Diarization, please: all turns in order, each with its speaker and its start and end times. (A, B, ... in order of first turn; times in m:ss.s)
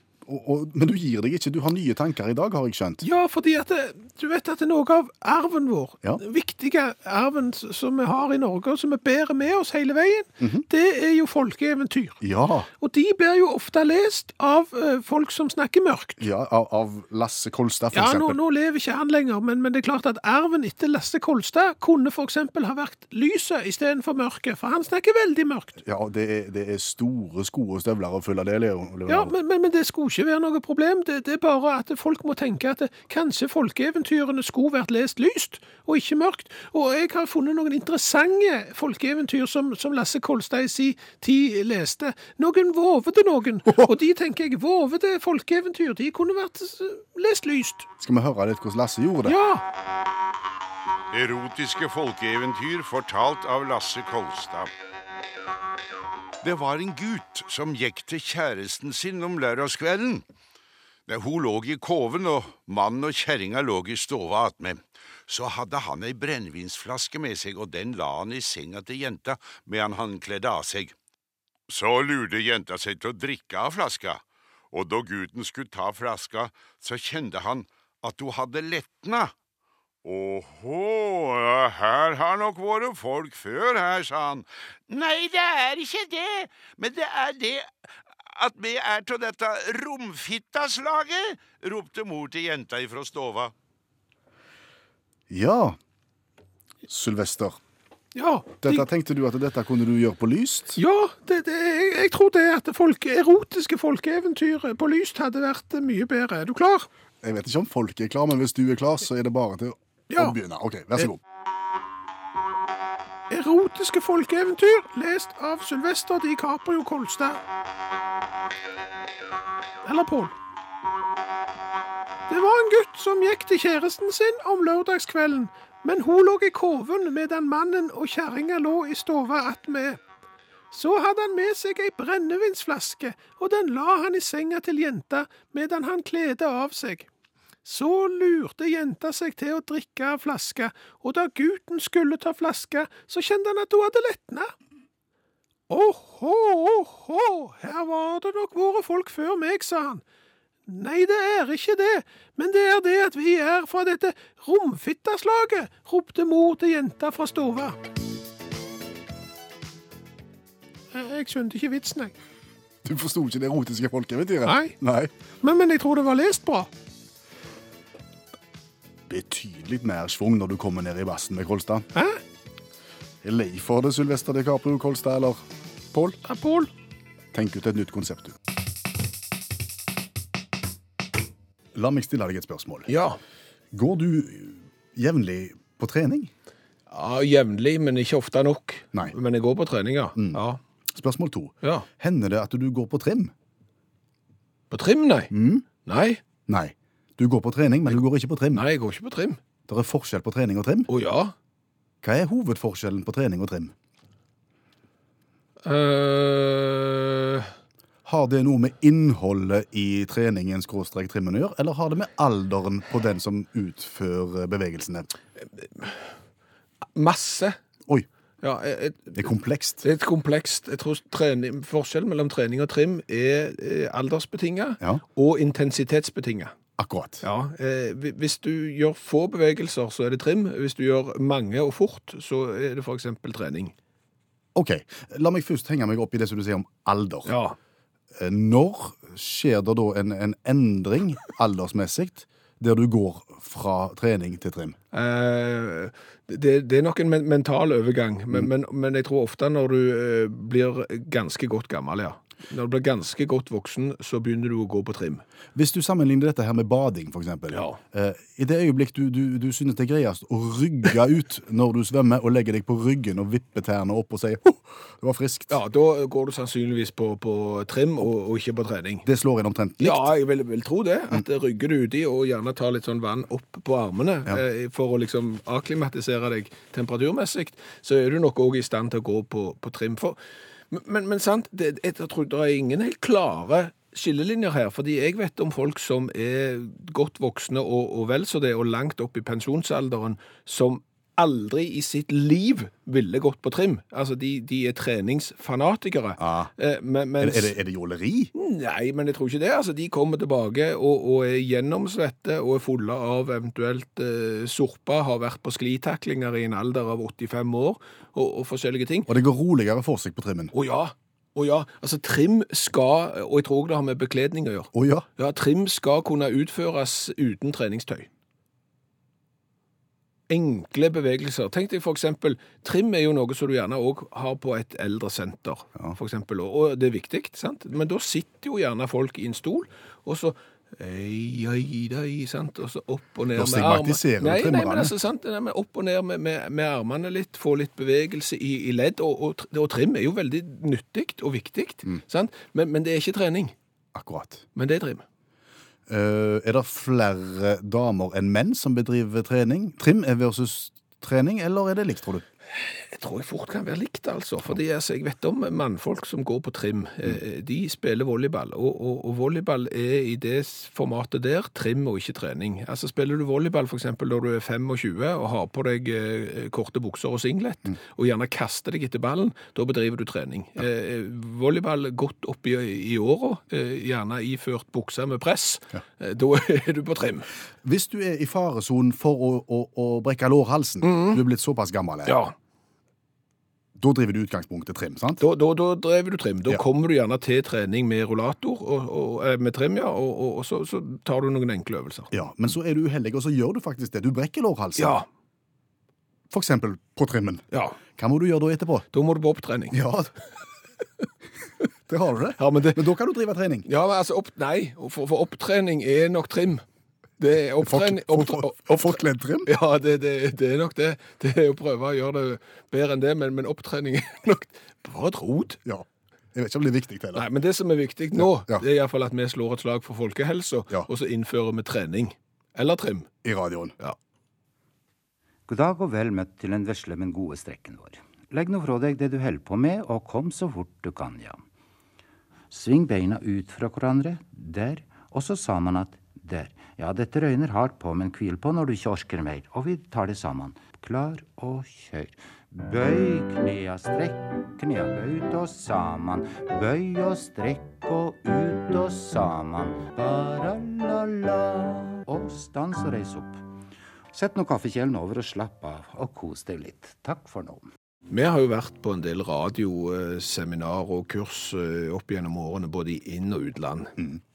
0:00.2-0:03.0 A
0:03.0-0:12.2 B
0:10.4-0:10.6 A
0:12.2-0:12.7 A
0:12.8-0:16.3 B
0:16.2-0:18.4 A
0:17.9-0:25.8 B
0:25.8-0:29.3 A
0:29.1-0:47.8 B
0:48.0-0:49.4 A
0:49.2-0:49.6 B
0:51.1-0:54.7 C
0:56.4-1:00.2 C
1:01.1-1:10.9 C
1:11.7-1:19.3 C
1:20.0-1:27.7 C
1:28.3-1:33.5 C
1:35.3-1:35.8 A
1:36.9-1:37.6 A
1:38.1-1:38.8 B
1:38.6-1:40.8 A
1:40.8-1:46.9 B
1:47.2-1:51.2 A
1:53.3-1:57.4 B
1:59.8-2:00.3 B
2:02.3-2:10.0 B
2:10.7-2:17.1 B
2:17.6-2:24.5 B
2:25.7-2:30.0 B
2:30.7-2:37.8 B
2:40.9-2:42.1 B
2:42.8-2:45.1 A
2:44.4-2:44.7 B
2:45.4-2:46.7 B
2:49.1-2:51.9 A
2:51.9-2:52.2 B
2:53.2-2:55.4 A
2:55.9-2:56.2 A
2:56.2-2:56.7 B
2:57.3-2:58.4 A
3:01.7-3:02.9 A
3:02.9-3:03.2 D
3:03.7-3:06.3 A
3:06.9-3:10.6 D
3:10.1-3:10.4 A
3:10.9-3:13.3 A
3:14.7-3:15.3 D
3:15.3-3:15.6 A
3:15.8-3:16.2 D
3:16.5-3:18.6 A
3:18.5-3:19.4 D
3:19.7-3:20.9 A
3:20.9-3:21.3 D
3:22.0-3:23.7 A
3:25.6-3:27.5 D
3:28.0-3:35.1 A
3:35.4-3:36.1 D
3:36.9-3:37.6 D
3:38.4-3:39.3 D
3:39.1-3:39.8 A
3:39.8-3:46.5 D
3:46.8-3:47.2 A
3:47.2-3:53.7 D
3:54.5-3:57.3 A
3:57.2-3:57.6 D
3:58.1-4:04.8 A
4:04.9-4:15.2 D
4:15.5-4:25.5 A
4:17.5-4:17.8 D
4:25.5-4:29.0 D
4:29.0-4:30.1 A
4:29.8-4:40.2 D
4:40.7-4:57.5 D
4:56.2-4:56.5 A
4:57.2-4:58.3 A
4:58.3-5:09.1 D
5:09.1-5:10.5 A
5:10.5-5:18.1 D
5:14.7-5:15.0 A
5:20.3-5:43.5 D
5:33.3-5:34.9 A
5:43.9-5:44.4 A
5:44.5-5:45.0 D
5:45.9-5:52.2 A
5:52.5-6:17.3 D
6:17.6-6:22.2 A
6:20.8-6:21.2 D
6:22.0-6:22.3 D
6:23.8-6:25.2 A
6:25.2-6:32.1 D
6:32.1-6:35.0 A
6:34.8-6:35.0 D
6:36.3-6:37.4 A
6:37.5-6:37.8 D
6:37.9-6:38.9 A
6:38.9-6:39.8 D
6:39.7-6:40.1 A
6:41.9-6:43.7 A
6:42.4-6:42.8 D
6:43.6-6:46.6 D
6:47.2-6:55.6 D
6:47.6-6:49.5 A
6:55.6-6:57.3 A
6:57.1-7:03.1 D
6:58.2-6:58.6 A
7:03.2-7:03.7 A
7:05.5-7:11.4 E
7:12.5-7:33.4 E
7:34.1-7:37.7 E
7:38.1-7:43.9 D